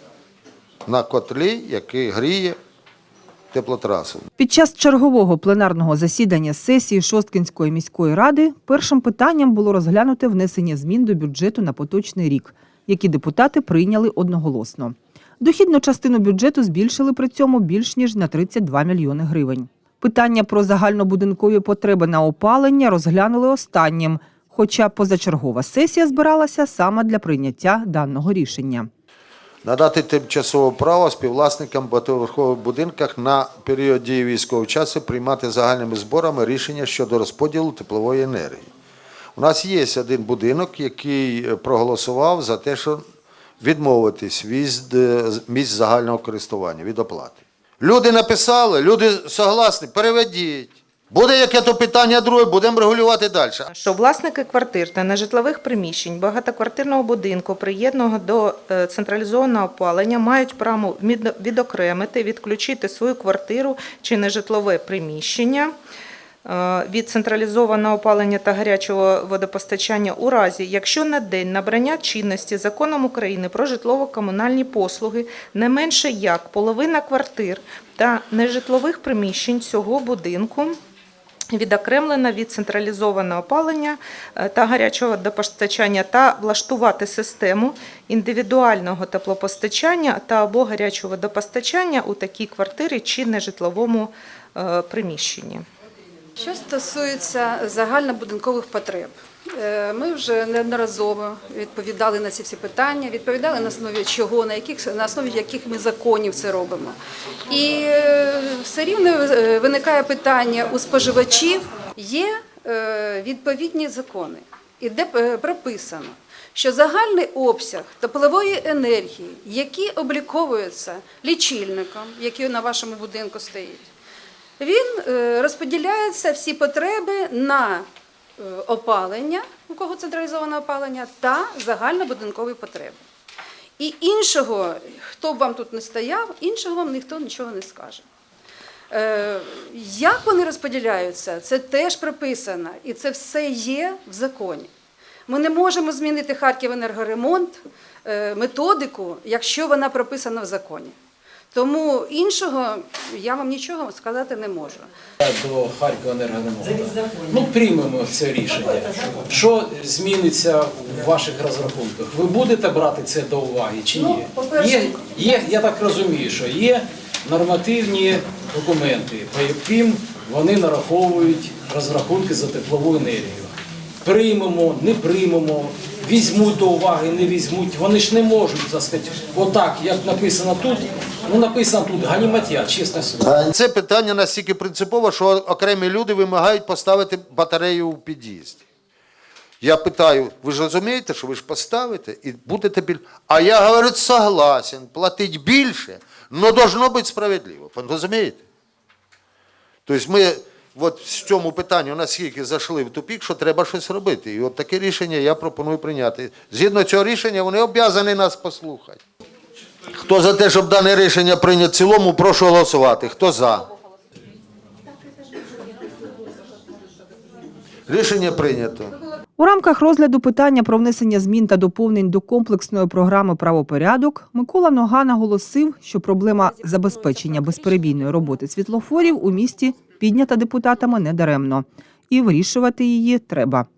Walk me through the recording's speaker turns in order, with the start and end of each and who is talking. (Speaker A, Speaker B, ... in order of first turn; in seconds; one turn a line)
Speaker A: 0.9-2.6
Speaker A: 3.5-4.3
Speaker B: 4.4-28.9
Speaker A: 29.6-38.7
Speaker A: 39.4-43.0
Speaker A: 43.6-53.7
Speaker C: 53.7-65.7
Speaker C: 66.5-80.8
Speaker C: 81.5-95.7
Speaker D: 96.4-107.0
Speaker D: 107.5-123.8
Speaker D: 124.6-127.9
Speaker D: 128.4-133.0
Speaker D: 133.8-138.1
Speaker D: 138.9-144.7
Speaker D: 145.3-150.9
Speaker D: 151.5-154.9
Speaker E: 155.2-183.4
Speaker D: 163.9-165.5
Speaker A: 183.2-188.7
Speaker A: 189.6-198.4
Speaker A: 199.9-209.0
Speaker A: 209.9-213.7
Speaker A: 217.9-219.0
Speaker B: 219.4-233.7